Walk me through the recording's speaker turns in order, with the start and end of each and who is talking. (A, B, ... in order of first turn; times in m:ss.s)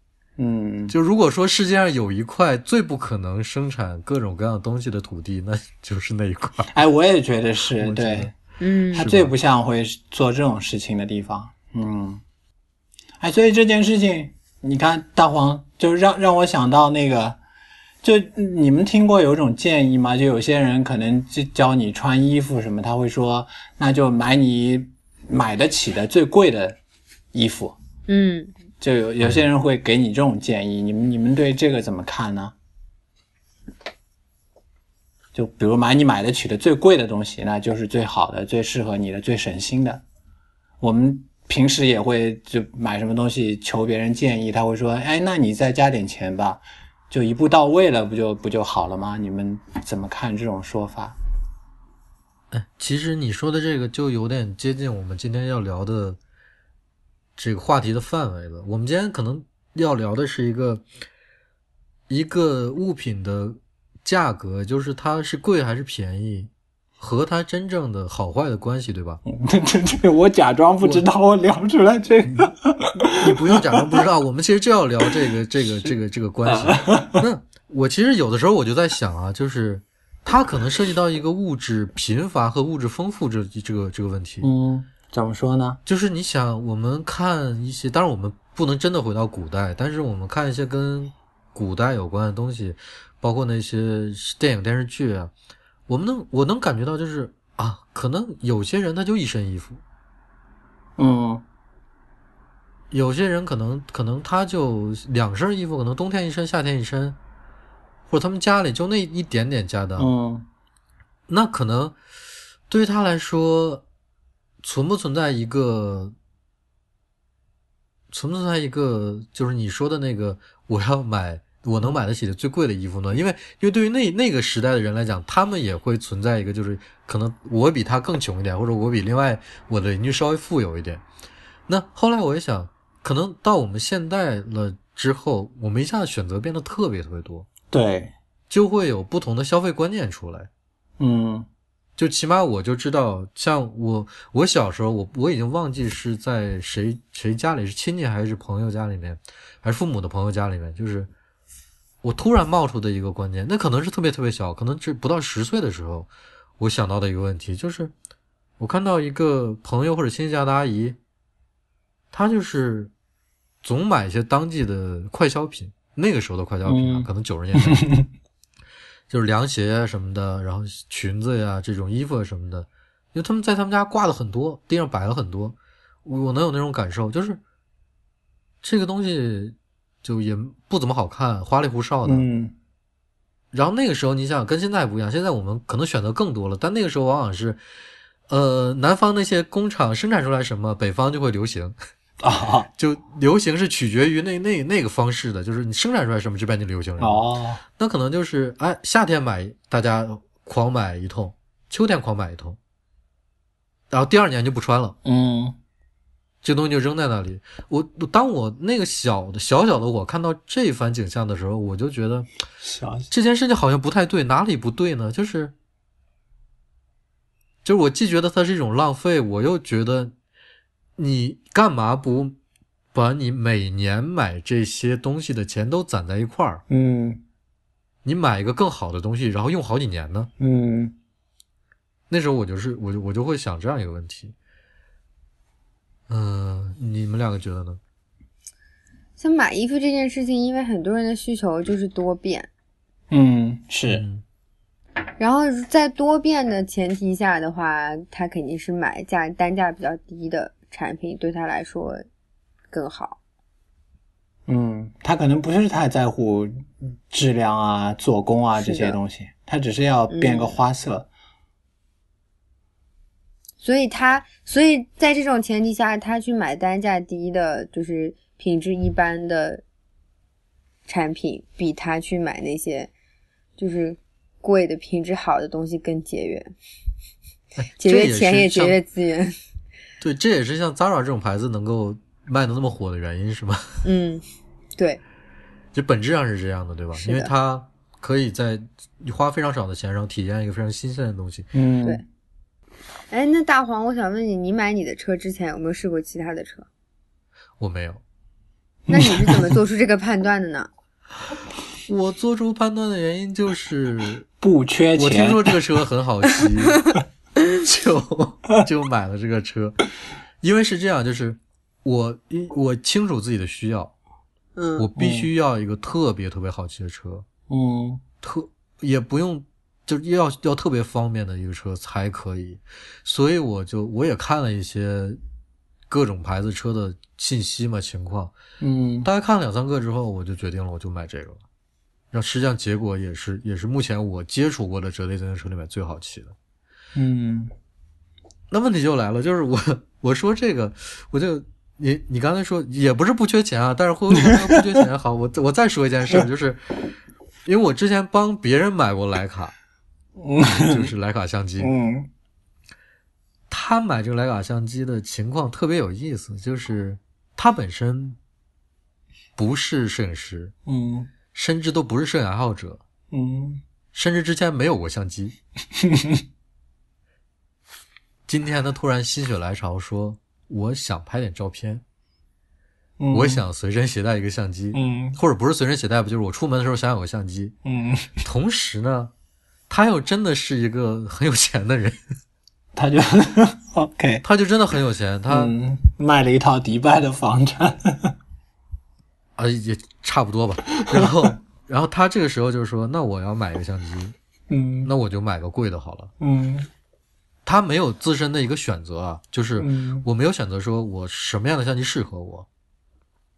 0:00.4-0:00.9 A
0:00.9-0:06.8 B
0:06.7-0:08.3 A
0:07.8-0:08.3 B
0:08.6-0:09.0 C
0:08.9-0:09.3 B
0:08.9-0:12.2 A
0:13.2-0:17.4 A
0:18.0-0:26.8 A
0:27.3-0:27.8 A
0:28.1-0:28.5 C
0:28.8-0:32.5 A
0:35.3-0:40.0 A
0:40.8-0:51.2 A
0:52.5-0:56.2 B
0:57.4-1:00.8 B
1:02.1-1:09.2 B
1:09.3-1:14.0 A
1:12.2-1:12.5 B
1:13.1-1:24.5 B
1:16.4-1:17.2 A
1:24.4-1:25.8 A
1:25.8-1:35.3 B
1:35.9-1:39.8 B
1:41.0-1:41.4 A
1:42.9-1:47.2 B
1:48.1-1:50.1 B
1:50.0-1:50.4 A
1:51.3-1:52.0 B
1:52.7-1:53.8 B
1:54.6-1:56.1 B
1:58.1-2:11.0 B
2:11.7-2:17.5 B
2:17.7-2:18.1 A
2:18.5-2:20.5 B
2:21.0-2:21.5 A
2:22.0-2:31.1 B
2:32.0-2:37.9 B
2:38.6-2:41.0 B
2:42.1-2:42.9 B
2:43.6-2:47.9 B
2:46.6-2:48.0 A
2:49.1-2:57.4 B
2:58.6-3:02.3 B
3:02.0-3:02.5 A
3:03.5-3:07.6 B
3:08.3-3:11.8 B
3:12.2-3:12.7 A
3:12.7-3:22.6 B
3:17.0-3:17.6 A
3:23.9-3:25.0 B
3:25.0-3:25.6 A
3:26.4-3:32.3 B
3:32.6-3:33.1 A
3:33.1-3:35.5 B
3:37.6-3:40.1 B
3:41.0-3:42.4 B
3:42.9-3:46.6 B
3:46.7-3:47.2 A
3:48.0-3:50.3 B
3:50.4-3:50.9 A
3:52.1-3:54.3 B
3:56.1-3:57.8 B
3:59.2-4:02.5 C
4:03.1-4:04.0 A
4:03.9-4:04.2 B
4:05.2-4:12.0 C
4:12.7-4:13.2 C
4:14.5-4:21.1 A
4:18.6-4:19.0 C
4:20.1-4:20.5 C
4:23.6-4:29.6 C
4:30.9-4:32.9 C
4:33.6-4:36.5 C
4:37.6-4:38.8 B
4:37.8-4:39.4 C
4:40.0-4:43.8 B
4:43.8-4:44.2 C
4:45.7-4:51.5 B
4:47.0-4:47.3 C
4:51.5-4:52.0 A
4:53.1-4:56.7 C
4:57.6-4:58.0 B
4:58.9-4:59.6 A
4:58.9-5:00.7 C
5:01.9-5:04.2 B
5:04.4-5:05.6 A
5:05.0-5:06.9 B
5:07.5-5:09.8 B
5:10.4-5:13.9 B
5:14.6-5:14.9 C
5:14.8-5:17.2 B
5:15.0-5:15.3 A
5:17.5-5:18.0 A
5:18.2-5:25.2 B
5:25.9-5:28.3 B
5:28.6-5:29.1 A
5:29.0-5:31.4 B
5:32.1-5:36.3 B
5:36.9-5:37.5 A
5:38.5-5:46.6 B
5:47.4-5:49.5 B
5:50.2-5:50.9 A
5:50.4-5:51.7 B
5:51.6-5:52.1 A
5:53.5-5:58.2 B
5:59.4-6:00.5 B
6:00.6-6:01.1 A
6:01.3-6:02.8 B
6:03.1-6:03.6 A
6:03.9-6:05.4 B
6:05.8-6:06.2 A
6:08.3-6:11.8 B
6:13.0-6:13.4 A
6:13.1-6:17.5 B
6:14.7-6:15.2 A
6:17.6-6:18.1 A
6:18.2-6:19.1 B
6:19.7-6:22.0 B
6:22.7-6:24.2 A
6:24.2-6:25.5 B
6:25.3-6:28.1 A
6:29.4-6:34.1 B
6:34.5-6:34.9 A
6:34.8-6:36.1 B
6:36.2-6:36.7 A
6:37.4-6:42.4 B
6:39.6-6:40.0 A